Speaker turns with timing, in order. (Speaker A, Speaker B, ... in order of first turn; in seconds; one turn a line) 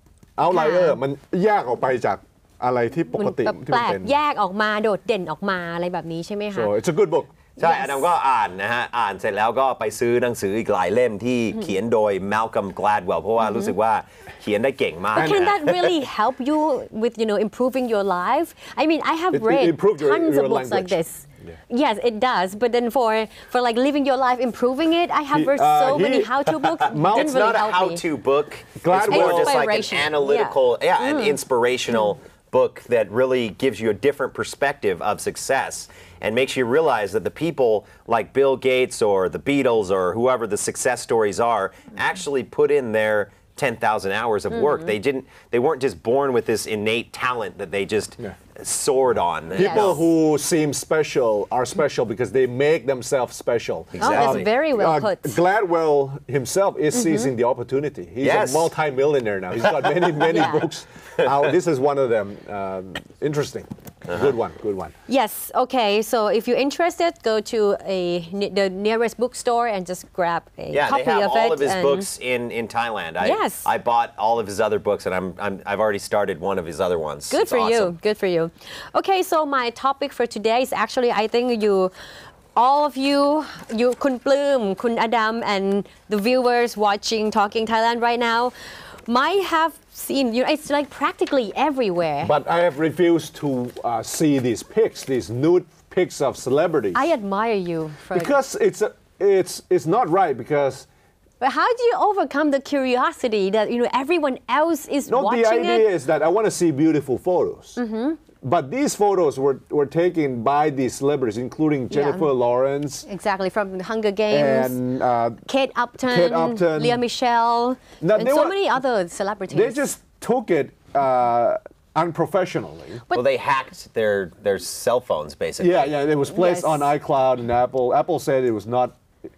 Speaker A: 0.4-4.1
Speaker B: 0.5-1.0
Speaker B: 3.2-6.7
Speaker A: 6.5-7.3
Speaker B: 7.6-8.0
Speaker C: 7.6-15.8
Speaker B: 13.4-13.7
Speaker B: 15.2-28.0
Speaker A: 19.3-21.6
Speaker A: 25.3-27.5
Speaker C: 27.0-50.0
Speaker A: 28.8-29.6
Speaker B: 29.0-31.4
Speaker B: 44.5-44.9
Speaker A: 49.5-64.9
Speaker B: 49.5-49.9
Speaker C: 54.0-54.5
Speaker B: 54.0-55.4
Speaker B: 56.9-57.3
Speaker C: 58.2-58.7
Speaker B: 60.3-60.6
Speaker B: 65.1-72.1
Speaker C: 70.7-77.9
Speaker B: 73.2-73.7
Speaker B: 77.3-81.9
Speaker B: 82.5-88.5
Speaker B: 89.0-92.3
Speaker A: 92.2-97.0
Speaker B: 96.9-98.3
Speaker A: 98.1-100.9
Speaker B: 101.4-105.9
Speaker A: 105.1-107.8
Speaker B: 107.8-108.2
Speaker A: 108.4-113.1
Speaker B: 111.9-112.3
Speaker B: 113.1-114.8
Speaker A: 114.3-115.4
Speaker B: 115.5-119.9
Speaker A: 116.0-117.0
Speaker A: 118.0-118.6
Speaker A: 119.5-123.0
Speaker C: 123.1-125.9
Speaker A: 125.6-129.0
Speaker B: 126.3-126.9